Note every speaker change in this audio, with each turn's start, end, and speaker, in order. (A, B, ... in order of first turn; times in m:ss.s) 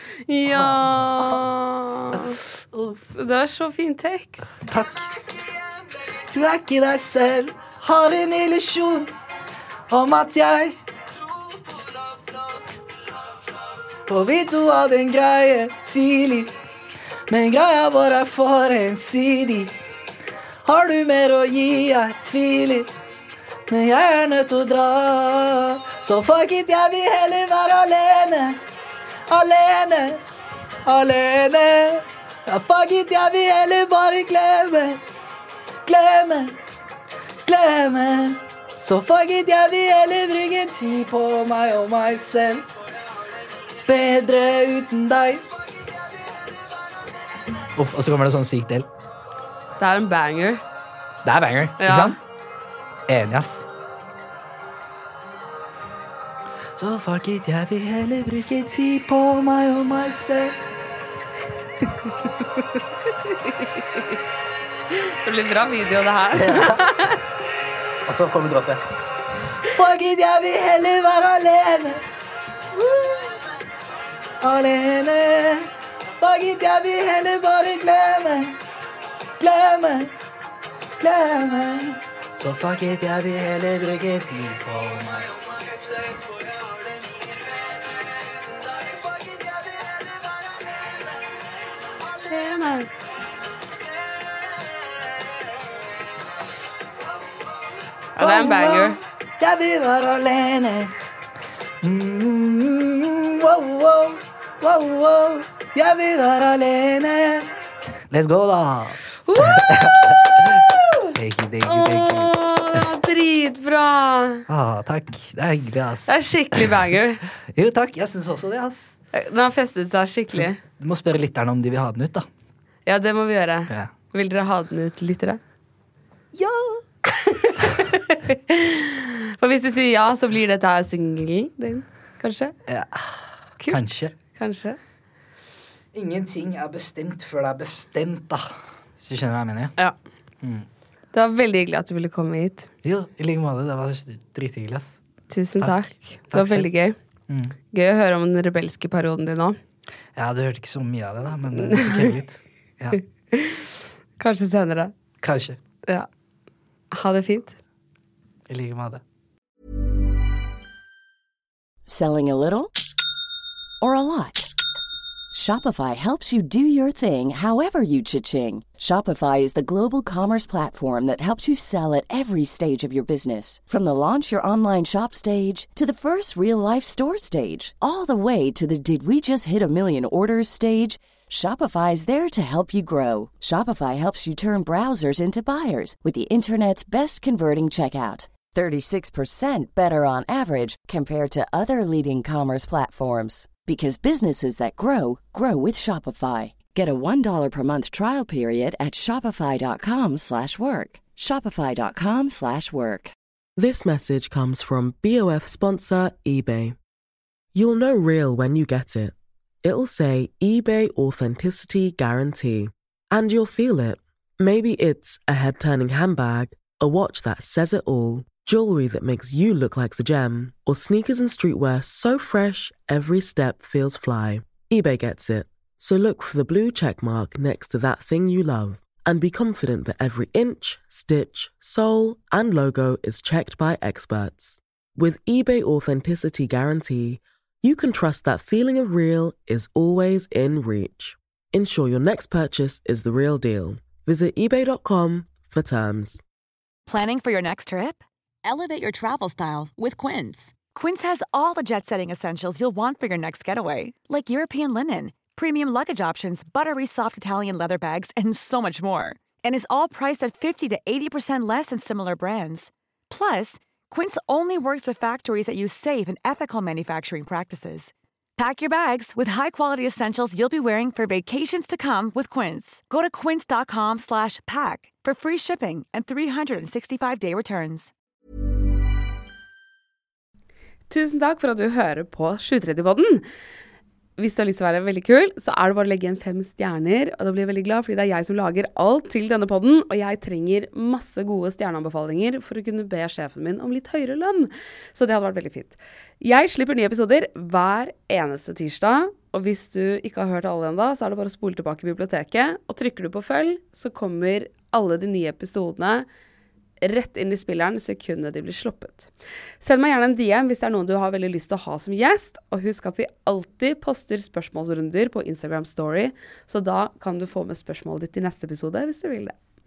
0:00.3-0:02.4 A
0:00.4-0:01.4 B
0:02.1-0:03.1 B
0:03.2-0:04.7 A
0:04.6-0:09.1 B
0:09.9-0:10.8 B
0:11.4-0:12.6 B
0:14.1-0:16.6 B
0:17.3-0:19.7 B
0:20.6-0:22.9 B
0:23.7-0:28.6 B
0:29.3-0:30.2 B
0:30.9-0:35.0 B
0:35.8-0:36.6 B
0:37.5-0:42.7 B
0:43.8-0:45.5 B
0:47.6-0:48.9 B
0:49.8-0:50.6 A
0:51.2-0:52.2 B
0:51.8-0:52.2 A
0:53.1-0:53.6 B
0:56.8-1:00.6 B
1:03.3-1:04.0 A
1:04.9-1:07.2 A
1:06.4-1:06.8 B
1:08.0-1:08.8 B
1:09.7-1:12.0 B
1:12.7-1:13.5 B
1:14.4-1:18.6 B
1:19.4-1:20.1 B
1:21.0-1:31.2 B
1:32.3-1:32.9 A
1:34.3-1:35.0 B
1:38.2-1:39.0 A
1:38.2-1:40.9 B
1:41.8-1:47.5 B
1:48.1-1:52.8 B
1:49.2-1:49.9 A
1:51.7-1:54.5 A
1:54.5-1:56.8 B
1:56.1-1:57.2 A
1:57.4-1:59.0 B
1:59.1-2:00.6 A
2:00.3-2:02.3 B
2:02.9-2:05.4 A
2:06.4-2:06.6 B
2:07.0-2:12.5 A
2:12.7-2:14.2 B
2:13.6-2:14.8 A
2:15.9-2:19.8 B
2:20.4-2:20.7 B
2:21.1-2:22.7 A
2:22.8-2:25.0 B
2:25.3-2:27.0 A
2:25.6-2:26.7 B
2:27.3-2:27.6 B
2:27.7-2:29.6 A
2:30.2-2:33.0 B
2:31.6-2:32.1 A
2:33.3-2:34.9 A
2:35.2-2:35.6 B
2:36.9-2:37.6 A
2:38.5-2:39.0 B
2:41.9-2:42.7 C
2:43.8-2:44.5 C
2:45.3-3:23.1 C
3:23.6-3:26.8 D
3:27.5-4:06.2 D
4:06.9-4:37.9 E
4:40.9-4:43.2 A
4:44.2-5:06.1 A
5:06.8-5:09.1 A
5:09.6-5:19.4 A